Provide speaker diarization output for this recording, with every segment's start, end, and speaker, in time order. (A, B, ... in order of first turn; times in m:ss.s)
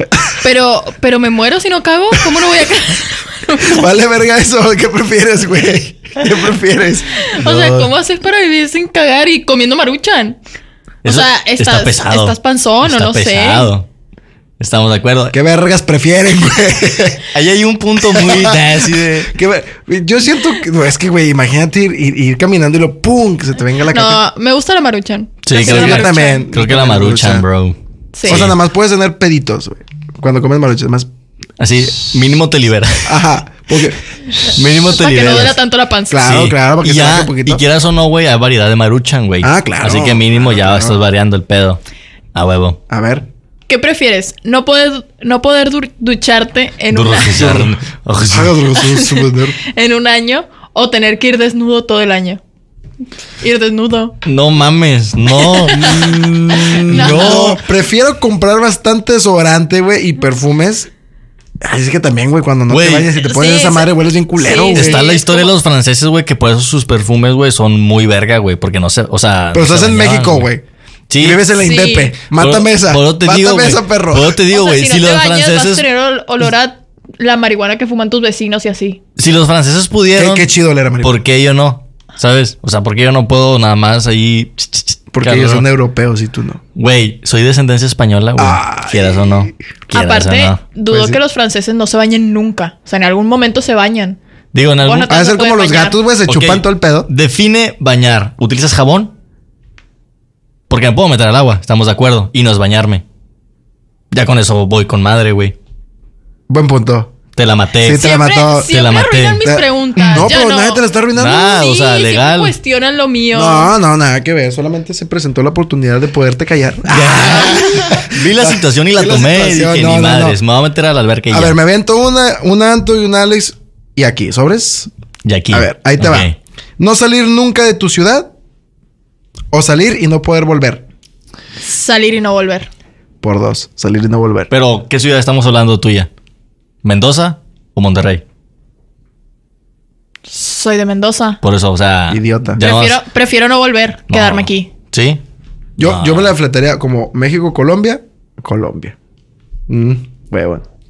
0:00.4-0:03.8 A
0:03.6-0:07.2 B
0:07.2-0:10.4 A
0:07.4-0:07.9 C
0:11.0-0:13.7 A
0:11.0-0:13.9 C
0:14.6-0:15.4 C
0:15.3-0:17.3 B
0:17.3-0:19.4 C
0:18.1-0:24.2 B
0:23.9-0:26.5 A
0:25.4-0:28.6 C
0:25.6-0:27.4 B
0:28.2-0:28.5 A
0:28.3-0:31.1 B
0:31.6-0:33.1 C
0:33.0-0:34.0 B
0:34.5-0:35.6 C
0:34.9-0:36.2 A
0:36.1-0:37.6 B
0:36.2-0:41.8 C
0:39.4-0:41.0 B
0:42.3-0:42.8 C
0:42.9-0:43.3 B
0:43.7-0:47.5 A
0:46.9-0:48.6 C
0:47.4-0:47.7 B
0:48.3-0:49.6 B
0:48.9-0:52.4 A
0:53.4-0:54.2 A
0:54.2-0:57.6 C
0:55.3-0:57.6 A
0:55.8-1:00.9 B
1:01.6-1:05.0 B
1:02.7-1:03.1 C
1:03.2-1:05.5 A
1:04.7-1:10.5 C
1:09.5-1:10.6 B
1:11.1-1:11.5 C
1:11.2-1:14.4 B
1:11.6-1:12.1 A
1:12.3-1:15.8 C
1:14.5-1:19.0 A
1:19.2-1:20.5 C
1:20.2-1:21.2 B
1:21.0-1:25.6 C
1:25.1-1:26.6 B
1:26.8-1:30.6 C
1:28.4-1:29.5 B
1:29.9-1:34.2 A
1:30.9-1:31.2 B
1:34.5-1:35.1 C
1:34.8-1:36.0 A
1:35.1-1:37.1 B
1:36.3-1:39.1 C
1:40.7-1:43.0 C
1:44.1-1:45.6 C
1:46.5-1:47.1 B
1:47.4-1:50.3 C
1:47.8-1:48.7 B
1:47.9-1:53.7 A
1:49.4-1:51.5 B
1:51.2-1:52.6 C
1:53.3-2:00.4 B
1:56.9-2:01.6 C
1:57.2-1:57.9 A
2:01.3-2:04.9 B
2:05.2-2:06.4 C
2:05.5-2:08.3 B
2:09.5-2:10.8 B
2:11.6-2:12.7 A
2:13.2-2:14.5 B
2:14.5-2:16.1 C
2:16.8-2:18.2 C
2:20.3-2:21.4 A
2:21.4-2:23.0 C
2:22.1-2:22.6 B
2:22.6-2:24.7 A
2:24.1-2:25.2 C
2:25.8-2:29.0 B
2:25.8-2:26.3 C
2:29.7-2:30.6 B